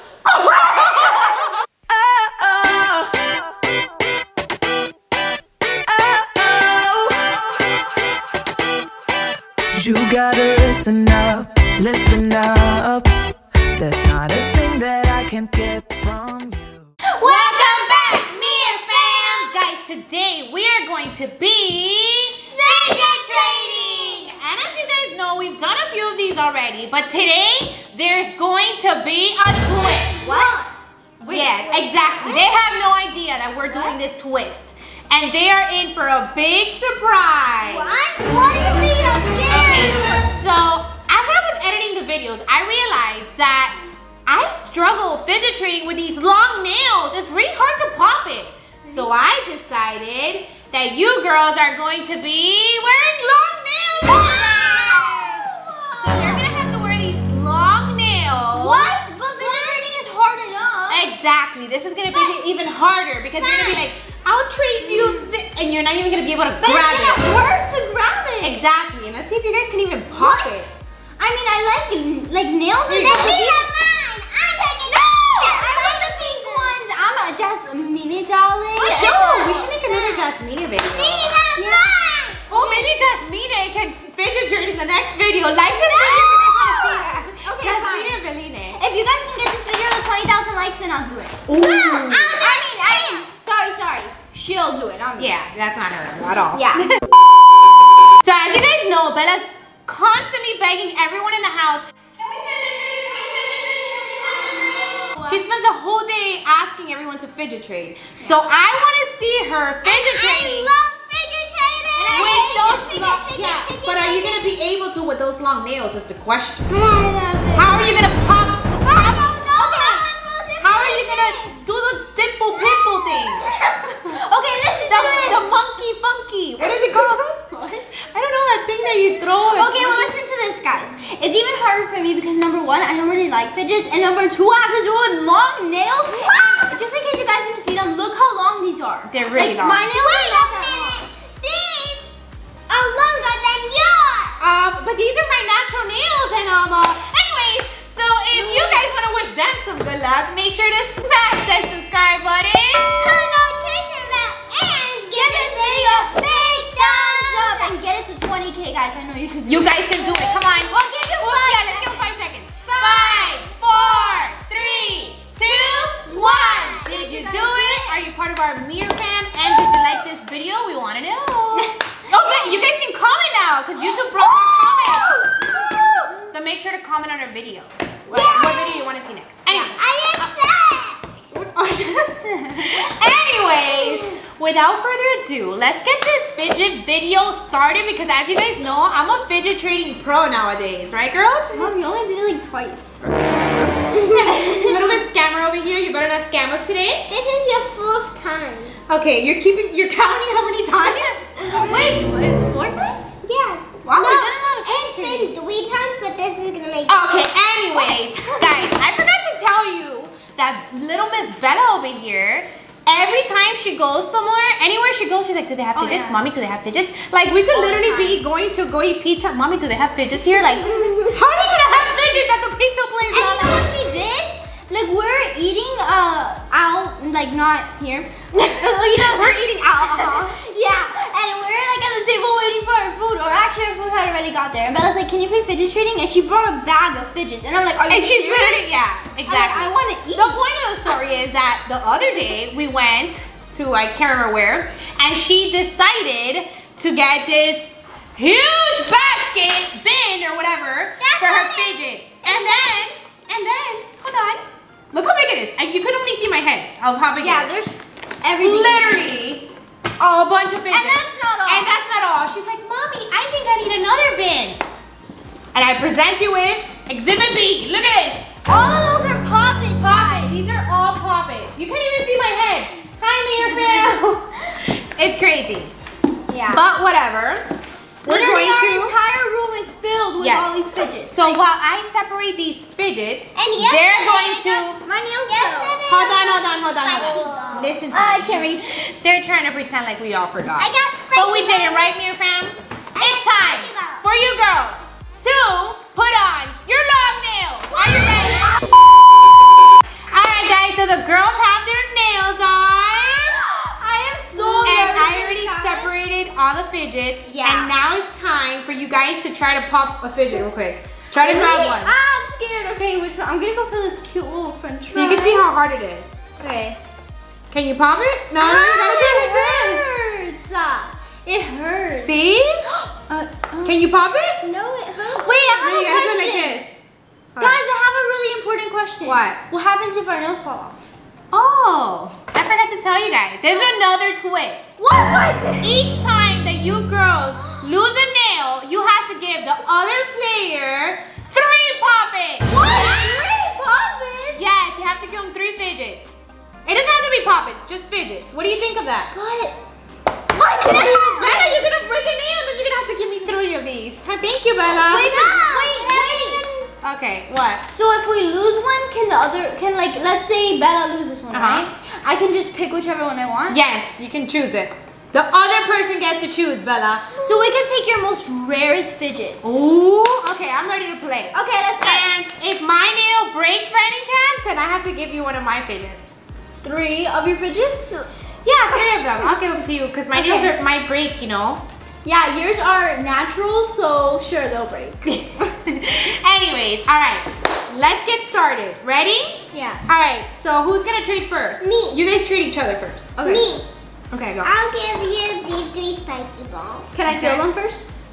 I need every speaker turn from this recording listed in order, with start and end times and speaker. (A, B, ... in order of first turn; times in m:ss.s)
0:00.2-0:03.5 A
0:05.8-0:07.6 A
0:09.7-0:13.2 A
0:13.8-0:16.9 A
0:17.2-0:19.5 B
0:17.2-0:30.1 C
0:22.5-0:24.3 B
0:30.0-0:30.6 B
0:30.2-0:31.7 D
0:31.3-0:37.9 C
0:31.7-0:32.5 B
0:37.6-0:40.1 B
0:38.8-0:39.1 D
0:39.5-0:43.7 C
0:44.2-0:55.4 C
0:54.2-0:56.4 D
0:56.0-0:59.0 C
0:58.5-1:01.1 D
1:00.9-1:07.4 C
1:03.4-1:03.8 D
1:06.6-1:08.6 D
1:08.4-1:10.7 C
1:10.1-1:10.5 D
1:11.2-1:13.6 D
1:12.9-1:13.5 C
1:13.1-1:16.8 B
1:14.9-1:19.6 D
1:18.8-1:20.3 B
1:18.8-1:21.4 C
1:20.8-1:22.8 B
1:21.6-1:21.9 D
1:22.5-1:28.8 C
1:25.7-1:28.2 D
1:28.7-1:35.3 D
1:31.5-1:32.4 C
1:31.5-1:33.2 B
1:35.2-1:37.0 C
1:36.5-1:37.0 D
1:38.2-1:43.6 C
1:44.9-1:45.4 D
1:45.2-1:50.7 C
1:49.8-1:54.4 B
1:52.0-1:53.0 D
1:52.0-1:56.6 C
1:56.7-1:57.7 D
1:57.5-2:00.0 C
1:58.8-2:01.6 B
2:00.6-2:03.4 C
2:02.6-2:05.5 B
2:04.0-2:05.5 D
2:04.9-2:10.1 C
2:09.5-2:21.0 D
2:19.1-2:19.8 C
2:19.7-2:22.1 B
2:22.7-2:24.4 B
2:24.4-2:33.0 C
2:28.3-2:28.8 D
2:32.9-2:37.7 B
2:35.1-2:42.0 D
2:39.4-2:55.1 C
2:42.6-2:43.4 D
2:43.9-2:47.0 B
2:46.8-2:47.9 D
2:54.3-2:56.0 B
2:55.3-2:56.1 D
2:56.3-2:59.8 C
2:58.1-2:58.6 D
2:58.1-2:58.9 B
2:59.5-2:59.7 D
2:59.6-3:01.2 B
3:01.3-3:11.7 C
3:02.2-3:02.7 D
3:03.7-3:04.1 B
3:11.5-3:13.0 D
3:13.0-3:13.4 C
3:13.9-3:14.8 B
3:14.4-3:17.1 C
3:17.1-3:18.8 B
3:18.9-3:21.3 C
3:21.4-3:23.1 D
3:23.2-3:27.1 B
3:23.8-3:25.3 D
3:26.9-3:43.7 C
3:35.7-3:36.2 D
3:37.5-3:38.2 D
3:40.7-3:41.1 B
3:43.1-4:00.4 D
3:49.0-3:49.6 C
3:57.9-4:17.5 C
4:11.0-4:12.6 B
4:17.2-4:19.0 D
4:18.4-4:19.5 C
4:20.0-4:24.6 C
4:20.7-4:21.8 D
4:25.5-4:28.3 C
4:28.4-4:30.5 D
4:29.8-4:35.7 C
4:36.3-4:36.6 D
4:36.5-4:37.4 C
4:38.0-4:38.9 C
4:38.0-4:41.4 D
4:40.2-4:40.5 C
4:41.0-4:44.8 C
4:43.4-4:44.7 B
4:44.8-4:45.8 D
4:45.2-4:47.8 B
4:45.9-4:58.6 C
4:46.9-4:48.8 D
4:50.6-4:51.9 B
4:53.0-4:54.0 B
4:57.7-4:58.6 B
5:00.1-5:03.4 C
5:03.8-5:06.0 D
5:04.3-5:04.8 B
5:04.6-5:11.9 C
5:07.2-5:07.7 D
5:11.1-5:15.4 D
5:14.9-5:16.1 C
5:16.4-5:16.8 D
5:17.5-5:19.8 C
5:18.4-5:22.2 D
5:21.9-5:22.6 C
5:22.7-5:23.7 D
5:23.6-5:24.4 C
5:24.4-5:25.6 B
5:25.0-5:26.6 D
5:25.5-5:26.7 C
5:27.3-5:27.6 C
5:27.4-5:30.9 D
5:29.0-5:29.4 C
5:31.3-5:34.7 C
5:34.8-5:35.7 D
5:35.6-5:42.5 C
5:42.5-5:44.4 D
5:42.8-5:43.1 B
5:44.3-5:46.1 C
5:46.6-5:49.1 C
5:49.1-5:49.5 D
5:50.4-5:51.7 B
5:50.4-5:55.1 C
5:54.8-5:56.4 D
5:54.9-5:56.4 B
5:56.8-5:57.6 C
5:57.7-6:03.6 D
6:01.3-6:01.7 C
6:03.5-6:07.1 C
6:07.2-6:09.6 D
6:09.4-6:16.1 C
6:11.3-6:12.1 D
6:16.6-6:18.0 D
6:18.4-6:21.6 C
6:20.1-6:20.5 D
6:22.0-6:25.2 D
6:25.0-6:33.2 C
6:29.5-6:29.8 D
6:31.6-6:32.0 B
6:33.2-6:33.4 D
6:33.2-6:33.6 B
6:34.1-6:34.5 C
6:34.4-6:36.9 B
6:36.9-6:37.9 D
6:37.1-6:37.4 C